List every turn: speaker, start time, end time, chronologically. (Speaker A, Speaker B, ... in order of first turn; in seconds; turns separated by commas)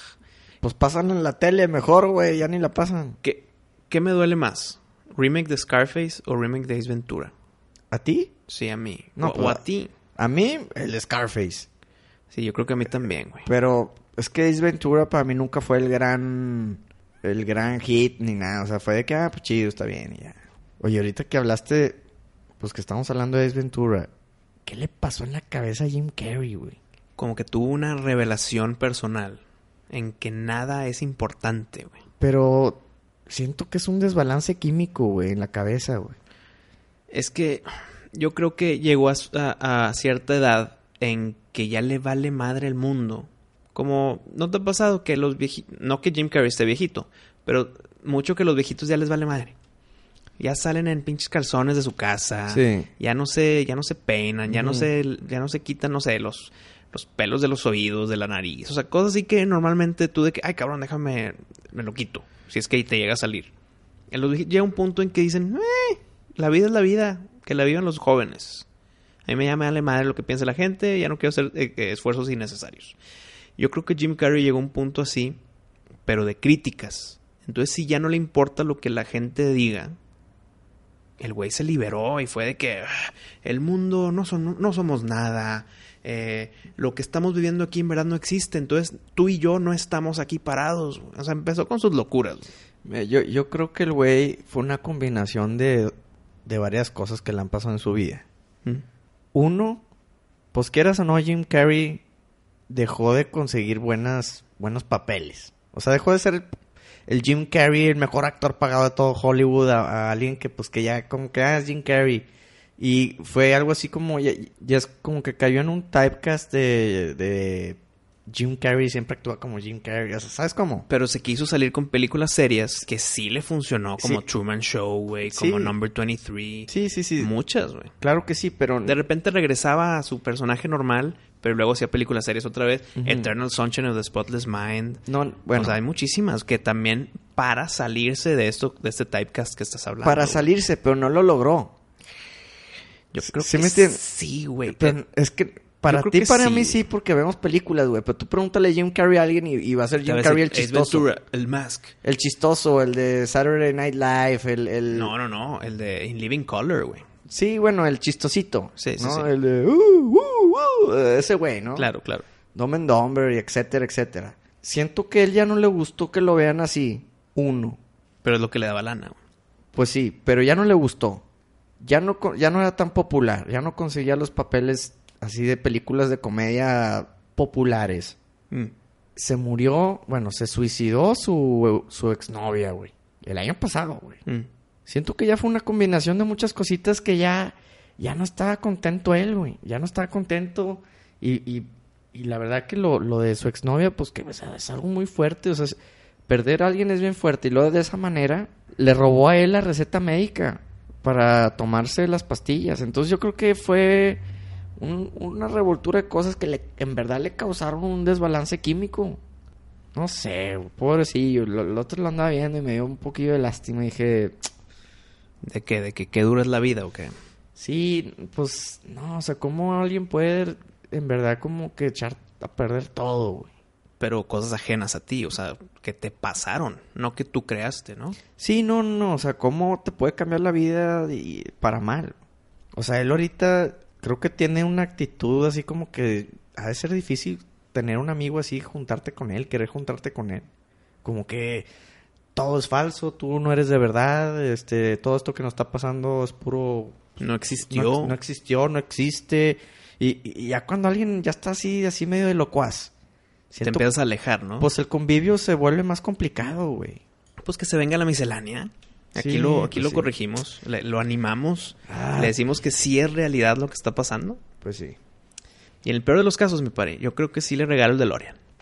Speaker A: 0.6-3.2, Speaker B: 3.2-7.3, Speaker A: 7.9-8.3, Speaker B: 8.5-9.9, Speaker A: 9.2-9.6, Speaker A: 10.2-11.7, Speaker B: 12.3-13.5, Speaker A: 13.4-22.0, Speaker A: 22.6-24.1, Speaker A: 24.6-26.8, Speaker B: 27.2-32.0, Speaker A: 32.2-36.1, Speaker B: 37.1-49.5, Speaker B: 50.4-63.5, Speaker A: 52.5-52.9, Speaker A: 54.5-54.9, Speaker B: 64.1-68.7, Speaker B: 69.2-73.0, Speaker B: 73.6-75.4, Speaker B: 76.0-80.0, Speaker B: 81.2-92.5, Speaker A: 92.8-95.9, Speaker A: 96.5-98.2, Speaker A: 99.3-99.8, Speaker A: 100.5-102.0, Speaker A: 102.7-106.5, Speaker A: 107.1-112.3, Speaker A: 112.8-120.9, Speaker B: 120.9-127.9, Speaker A: 125.3-125.7, Speaker A: 126.7-127.3, Speaker A: 128.0-129.0, Speaker B: 128.8-135.0, Speaker A: 133.0-133.3, Speaker A: 135.1-135.8, Speaker B: 135.5-140.4, Speaker A: 140.0-141.7, Speaker B: 143.1-145.0, Speaker A: 143.2-144.0, Speaker A: 144.7-151.1, Speaker B: 145.9-146.8, Speaker B: 150.0-151.9, Speaker A: 152.0-155.1, Speaker B: 154.9-157.0, Speaker A: 157.3-161.9, Speaker B: 158.8-159.3, Speaker B: 161.8-162.2, Speaker A: 162.5-167.8, Speaker B: 168.2-169.2, Speaker A: 169.7-171.2, Speaker A: 171.8-178.2, Speaker A: 179.2-184.2, Speaker A: 184.8-204.2, Speaker A: 204.8-209.2, Speaker A: 209.9-214.5, Speaker B: 215.4-217.1, Speaker A: 217.6-223.5, Speaker B: 224.0-228.2, Speaker A: 228.4-232.1, Speaker A: 232.7-240.5, Speaker A: 241.0-241.7, Speaker A: 242.3-247.0, Speaker B: 247.2-248.2, Speaker A: 247.7-252.9, Speaker A: 253.5-253.8, Speaker B: 253.6-254.7, Speaker A: 254.6-257.0, Speaker B: 257.4-264.4, Speaker A: 259.1-260.1, Speaker A: 261.9-262.4, Speaker A: 264.6-265.0, Speaker B: 265.8-268.4